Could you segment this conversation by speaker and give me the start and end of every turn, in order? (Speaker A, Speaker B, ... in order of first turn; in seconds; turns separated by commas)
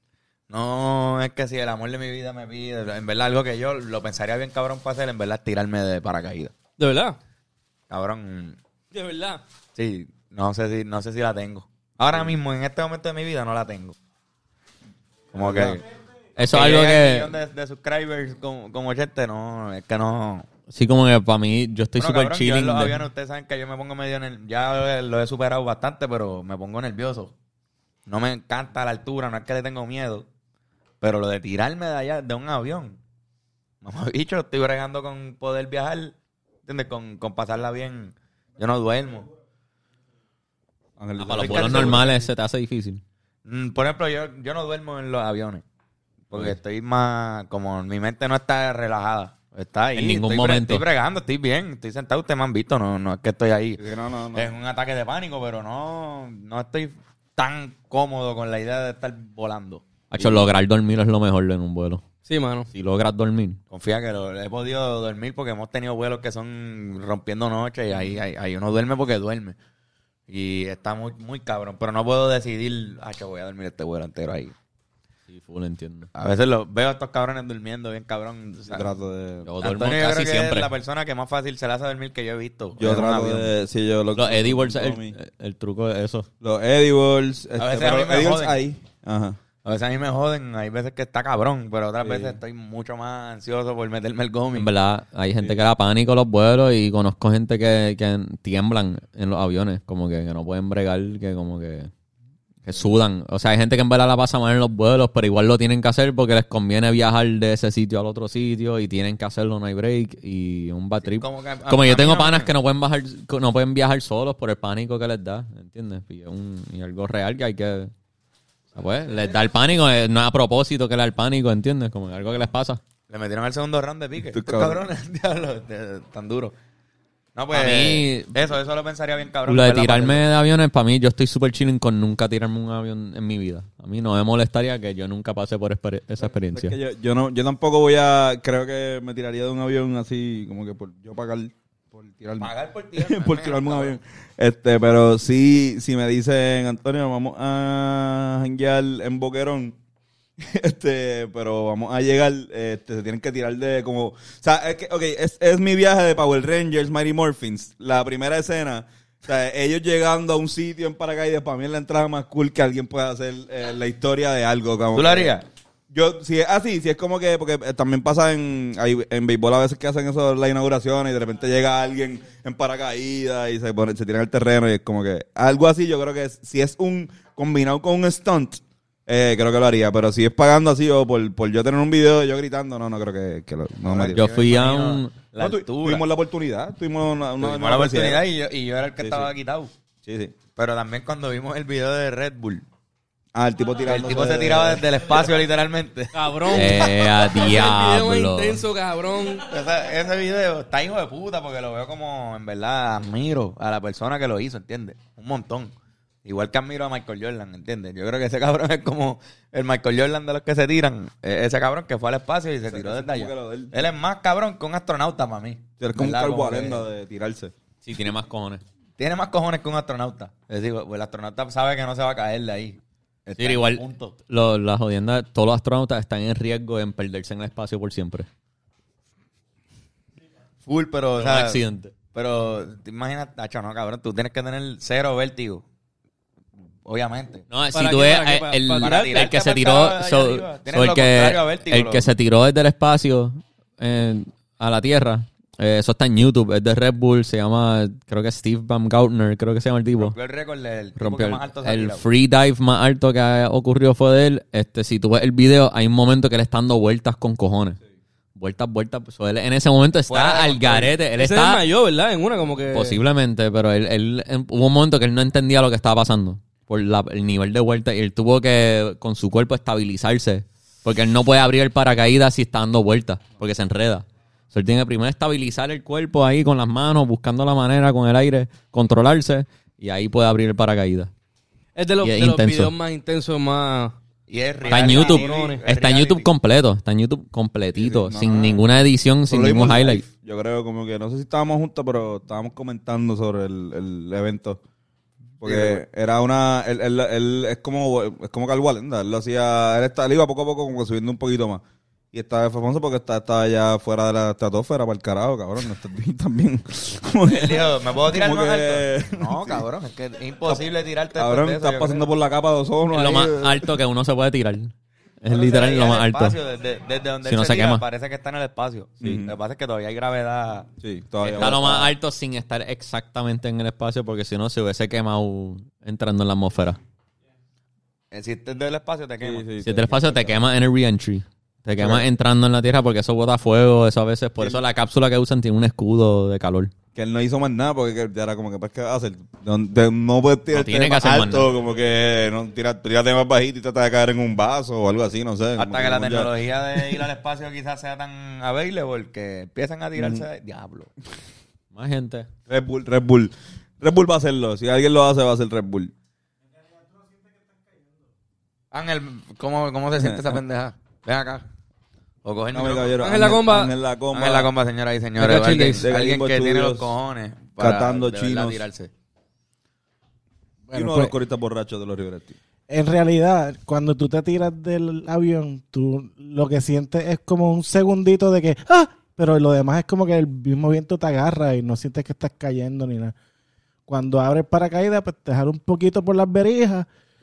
Speaker A: 0.5-6.5, Speaker B: 6.8-7.2, Speaker A: 7.9-8.6, Speaker B: 8.9-9.4, Speaker A: 9.8-14.0, Speaker A: 15.3-15.8, Speaker C: 15.3-15.8, Speaker D: 16.4-17.3, Speaker A: 16.5-20.5, Speaker D: 20.7-23.0, Speaker A: 22.0-27.3, Speaker A: 28.1-30.3, Speaker A: 31.0-33.0, Speaker A: 33.8-39.3, Speaker C: 41.0-42.1, Speaker D: 41.2-43.0, Speaker A: 41.3-42.2, Speaker A: 43.5-45.6, Speaker A: 46.3-53.8, Speaker C: 46.3-46.6, Speaker D: 50.0-50.8, Speaker C: 53.8-54.5, Speaker A: 54.3-59.8, Speaker D: 60.1-62.0, Speaker C: 60.2-60.4, Speaker B: 62.3-62.7, Speaker D: 62.7-63.6, Speaker A: 63.7-69.6, Speaker A: 70.3-74.5, Speaker D: 75.3-76.1, Speaker A: 76.2-78.9, Speaker C: 78.7-79.5, Speaker D: 79.5-80.7, Speaker A: 79.6-83.5, Speaker C: 82.8-85.2, Speaker D: 84.2-86.3, Speaker C: 86.4-89.4, Speaker A: 87.6-88.6, Speaker A: 89.7-94.7, Speaker C: 92.0-92.4, Speaker D: 94.6-101.9, Speaker D: 102.7-117.9, Speaker A: 111.0-112.5, Speaker D: 118.8-122.8, Speaker A: 123.1-126.5, Speaker C: 124.3-124.8, Speaker A: 127.3-130.2, Speaker D: 127.5-128.4, Speaker D: 129.5-136.8, Speaker C: 136.5-149.8, Speaker A: 142.4-144.0, Speaker C: 150.4-165.3, Speaker A: 164.9-165.4, Speaker C: 165.9-184.2, Speaker A: 183.8-186.1, Speaker D: 184.1-185.1, Speaker C: 185.4-188.2, Speaker A: 187.4-189.7, Speaker C: 189.0-189.3, Speaker C: 190.0-190.3, Speaker A: 190.6-192.7, Speaker C: 193.3-194.9, Speaker A: 193.8-196.9, Speaker B: 196.1-199.5, Speaker D: 196.5-198.6, Speaker A: 199.4-205.7, Speaker A: 206.2-216.9, Speaker C: 212.7-213.7, Speaker C: 215.8-217.5, Speaker D: 217.8-218.6, Speaker A: 219.0-224.2, Speaker D: 223.4-228.3, Speaker A: 230.7-231.6, Speaker D: 231.2-231.9, Speaker A: 232.1-235.6, Speaker A: 236.8-237.4, Speaker D: 237.5-250.2, Speaker B: 237.7-239.2, Speaker A: 238.8-242.1, Speaker A: 250.0-252.1, Speaker D: 251.0-257.8, Speaker D: 258.4-261.6, Speaker A: 260.1-260.9, Speaker B: 261.2-263.0, Speaker D: 262.7-281.1, Speaker B: 281.8-284.0, Speaker D: 282.0-282.7, Speaker A: 284.3-286.3, Speaker B: 284.6-285.6, Speaker D: 284.7-290.1, Speaker C: 287.8-288.6, Speaker C: 289.3-294.6, Speaker C: 295.4-301.6, Speaker A: 295.4-295.8, Speaker C: 302.1-309.6, Speaker A: 307.2-312.1, Speaker C: 310.5-313.8, Speaker D: 312.9-316.4, Speaker A: 315.3-320.7, Speaker D: 317.2-317.8, Speaker C: 319.0-319.3, Speaker C: 320.8-321.9, Speaker A: 321.2-321.9, Speaker D: 321.4-326.8, Speaker A: 328.1-329.5, Speaker C: 329.2-330.4, Speaker D: 329.6-336.7, Speaker C: 331.8-332.1, Speaker C: 336.9-347.1, Speaker D: 340.5-341.5, Speaker A: 345.6-350.9, Speaker C: 350.0-350.2, Speaker D: 351.7-352.3, Speaker C: 352.5-355.9, Speaker A: 358.7-361.4, Speaker C: 360.0-360.4, Speaker A: 362.2-363.0, Speaker C: 362.5-364.5, Speaker B: 363.0-363.7, Speaker A: 364.1-368.9, Speaker B: 365.2-365.9, Speaker C: 365.8-366.9, Speaker C: 367.6-368.6, Speaker E: 370.7-371.1, Speaker C: 370.7-372.4, Speaker E: 372.7-383.1, Speaker E: 383.9-386.9